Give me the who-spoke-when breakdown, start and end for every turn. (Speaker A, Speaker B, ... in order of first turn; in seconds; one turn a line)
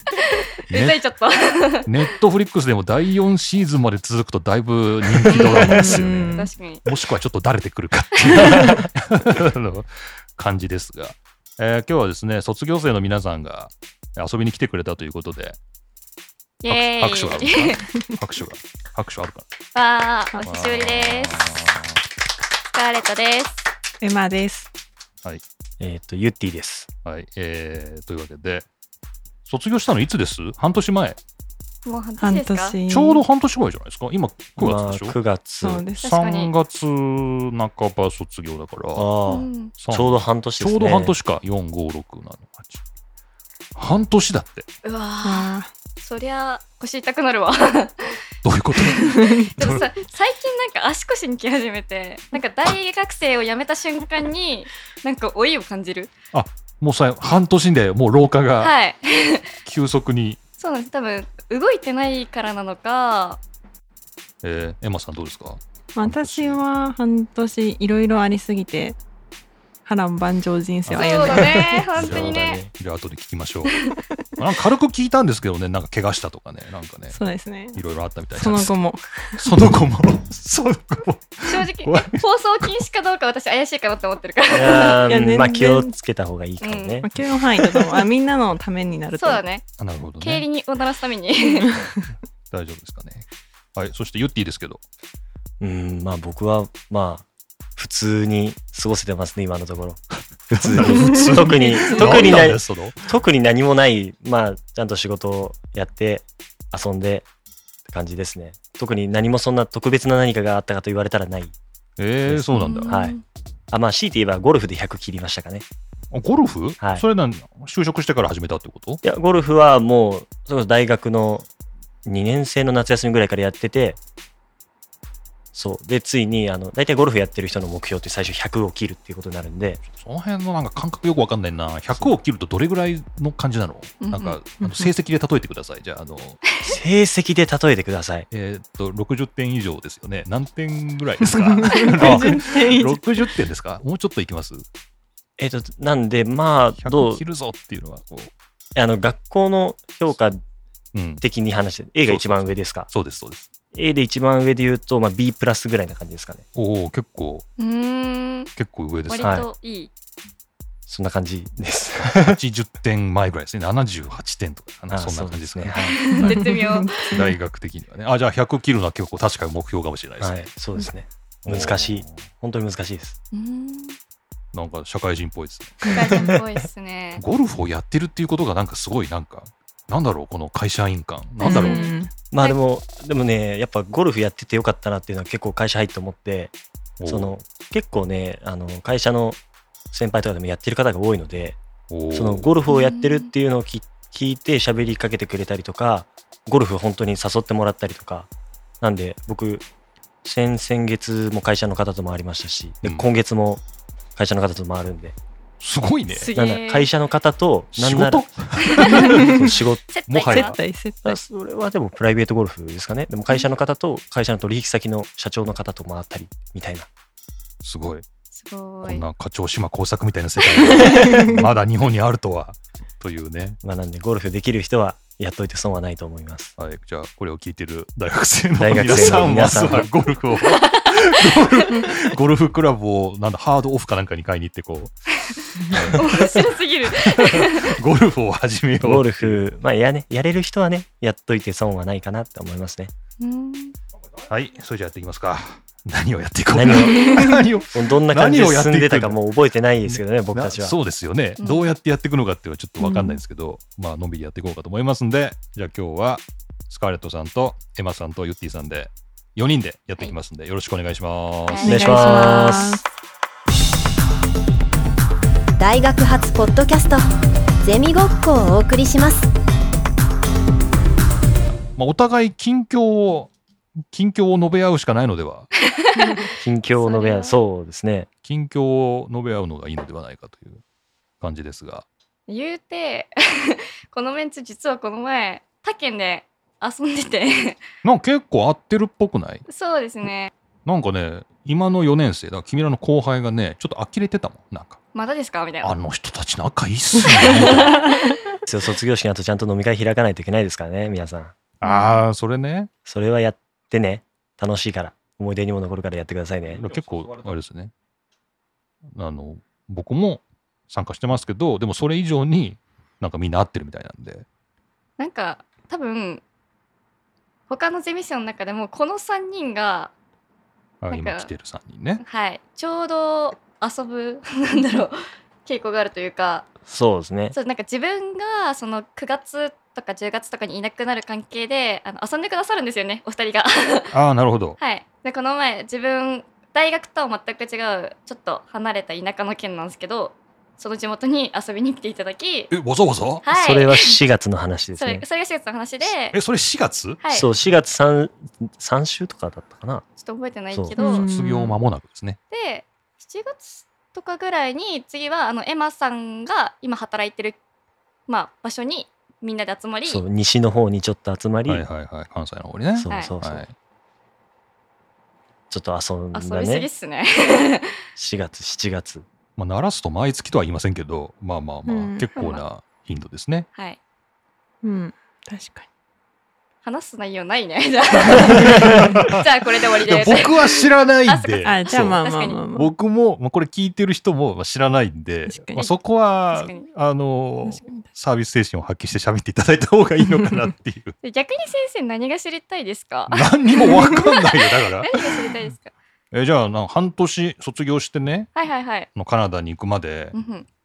Speaker A: 0.2-1.9
Speaker B: 0.7-1.0
Speaker B: 1.9-15.6
Speaker A: 5.3-6.8
Speaker C: 5.6-6.5
Speaker D: 5.8-6.3
Speaker A: 8.3-8.6
Speaker D: 8.5-8.8
Speaker A: 16.6-17.9
Speaker B: 16.7-19.5
Speaker A: 19.8-21.3
Speaker B: 20.4-22.0
Speaker A: 22.7-23.7
Speaker C: 24.0-24.7
Speaker D: 25.8-26.9
Speaker B: 27.1-28.7
Speaker B: 29.4-31.2
Speaker A: 31.9-32.8
Speaker C: 32.2-33.2
Speaker B: 32.9-35.2
Speaker D: 34.6-35.9
Speaker C: 35.6-36.2
Speaker B: 36.0-39.1
Speaker A: 36.2-36.5
Speaker D: 39.0-41.1
Speaker A: 39.3-39.7
Speaker B: 39.7-42.8
Speaker B: 43.8-44.6
Speaker A: 44.8-48.2
Speaker C: 45.2-45.7
Speaker B: 48.4-49.9
Speaker A: 48.8-56.1
Speaker C: 49.2-49.5
Speaker B: 56.3-58.7
Speaker A: 58.6-59.5
Speaker B: 59.6-60.4
Speaker A: 60.6-63.4
Speaker B: 64.4-66.6
Speaker C: 66.0-69.0
Speaker C: 69.9-71.8
Speaker B: 70.9-71.3
Speaker A: 70.9-72.6
Speaker D: 71.3-72.7
Speaker B: 72.0-73.8
Speaker A: 73.7-74.0
Speaker B: 74.4-78.8
Speaker C: 77.1-77.8
Speaker C: 78.3-79.4
Speaker B: 79.3-82.7
Speaker A: 81.5-85.0
Speaker D: 84.5-87.1
Speaker C: 85.0-85.9
Speaker A: 86.6-87.0
Speaker C: 87.0-89.4
Speaker A: 89.2-89.7
Speaker B: 89.8-90.5
Speaker A: 90.2-91.7
Speaker C: 91.6-92.1
Speaker B: 92.5-94.8
Speaker D: 95.6-97.2
Speaker D: 97.8-107.3
Speaker B: 100.5-103.1
Speaker C: 100.9-102.3
Speaker D: 107.9-111.5
Speaker B: 112.0-113.0
Speaker D: 112.3-113.2
Speaker A: 112.5-113.2
Speaker D: 113.7-115.7
Speaker B: 116.1-119.0
Speaker D: 119.0-121.5
Speaker D: 122.0-124.0
Speaker D: 125.5-129.8
Speaker B: 129.9-136.4
Speaker A: 134.0-134.4
Speaker C: 134.6-134.9
Speaker D: 136.7-138.3
Speaker B: 138.3-144.7
Speaker C: 141.6-143.3
Speaker D: 145.4-147.2
Speaker B: 146.8-148.3
Speaker D: 148.8-150.4
Speaker B: 150.9-151.2
Speaker D: 151.2-152.9
Speaker B: 152.1-153.5
Speaker D: 153.7-156.4
Speaker B: 156.6-157.5
Speaker A: 157.6-158.5
Speaker B: 158.6-159.4
Speaker A: 159.1-159.9
Speaker D: 159.2-159.5
Speaker D: 160.9-162.4
Speaker B: 162.2-170.5
Speaker D: 164.9-166.1
Speaker A: 165.9-167.2
Speaker C: 166.2-167.4
Speaker D: 170.2-173.2
Speaker B: 171.4-172.2
Speaker A: 173.3-174.0
Speaker B: 174.5-175.9
Speaker C: 175.9-176.3
Speaker A: 175.9-177.2
Speaker B: 177.2-181.9
Speaker C: 181.4-182.1
Speaker A: 181.4-182.6
Speaker D: 182.3-186.5
Speaker B: 187.0-187.4
Speaker D: 187.1-189.4
Speaker D: 189.9-191.6
Speaker B: 191.9-192.5
Speaker D: 192.1-198.3
Speaker A: 192.7-193.3
Speaker D: 198.8-199.7
Speaker D: 200.2-203.6
Speaker B: 202.8-203.1
Speaker D: 204.2-205.2
Speaker B: 205.6-206.3
Speaker A: 206.1-206.9
Speaker D: 206.3-209.8
Speaker B: 207.7-209.5
Speaker A: 209.9-210.6
Speaker B: 210.1-210.6
Speaker C: 210.3-211.2
Speaker D: 211.1-216.9
Speaker B: 217.6-218.1
Speaker A: 218.3-219.1
Speaker B: 218.8-223.6
Speaker A: 220.8-221.1
Speaker D: 221.0-221.3
Speaker D: 223.6-226.6
Speaker B: 226.6-234.9
Speaker D: 228.6-229.9
Speaker A: 230.5-230.9
Speaker B: 235.7-239.4
Speaker A: 235.7-237.8
Speaker D: 238.8-242.9
Speaker A: 243.2-243.8
Speaker B: 244.3-249.2
Speaker D: 246.5-250.8
Speaker B: 249.8-261.9
Speaker A: 251.4-251.7
Speaker A: 252.8-253.1
Speaker A: 261.5-262.7
Speaker D: 261.6-262.8
Speaker C: 261.6-262.8
Speaker E: 265.6-267.1
Speaker E: 267.6-269.3
Speaker B: 271.8-273.3
Speaker B: 273.9-275.5
Speaker A: 275.8-276.3
Speaker C: 276.0-276.2
Speaker D: 276.4-278.1
Speaker A: 276.8-277.4
Speaker B: 278.2-280.6
Speaker B: 281.2-281.9
Speaker A: 282.3-287.6
Speaker B: 287.8-289.4
Speaker A: 289.5-290.3
Speaker B: 290.7-294.8
Speaker A: 294.9-295.7
Speaker B: 295.6-297.8
Speaker A: 297.1-298.0
Speaker D: 298.5-301.4
Speaker B: 301.6-302.7
Speaker A: 301.6-301.9
Speaker D: 302.9-306.7
Speaker B: 306.5-307.7
Speaker B: 308.9-314.3
Speaker A: 315.0-316.2
Speaker A: 317.5-319.9
Speaker B: 320.8-322.0
Speaker A: 320.9-321.3
Speaker A: 322.0-326.5
Speaker D: 326.7-327.4
Speaker A: 327.3-333.9
Speaker B: 333.9-334.6
Speaker A: 334.6-342.5
Speaker B: 342.5-343.2
Speaker A: 343.2-344.0
Speaker D: 343.3-345.0
Speaker A: 344.8-346.2
Speaker B: 345.8-347.0
Speaker A: 347.0-347.3
Speaker D: 347.1-349.9
Speaker A: 350.0-351.0
Speaker C: 350.8-351.6
Speaker B: 350.9-352.2
Speaker A: 352.3-357.4
Speaker A: 358.1-360.0
Speaker D: 359.9-361.6
Speaker B: 361.5-363.5
Speaker D: 362.8-363.5
Speaker D: 365.5-366.7
Speaker A: 366.1-367.8
Speaker D: 368.0-369.1
Speaker B: 369.4-373.5
Speaker C: 371.7-372.1
Speaker A: 372.2-372.4
Speaker C: 374.6-375.7
Speaker A: 376.6-382.4
Speaker B: 378.2-379.2
Speaker B: 379.8-382.0
Speaker C: 381.4-382.7
Speaker B: 382.5-390.9
Speaker C: 385.3-385.7
Speaker A: 386.3-386.7
Speaker C: 387.4-387.9
Speaker A: 391.0-395.7
Speaker B: 393.1-395.3
Speaker B: 396.1-398.3
Speaker A: 398.4-398.9
Speaker B: 398.9-400.2
Speaker A: 400.1-400.5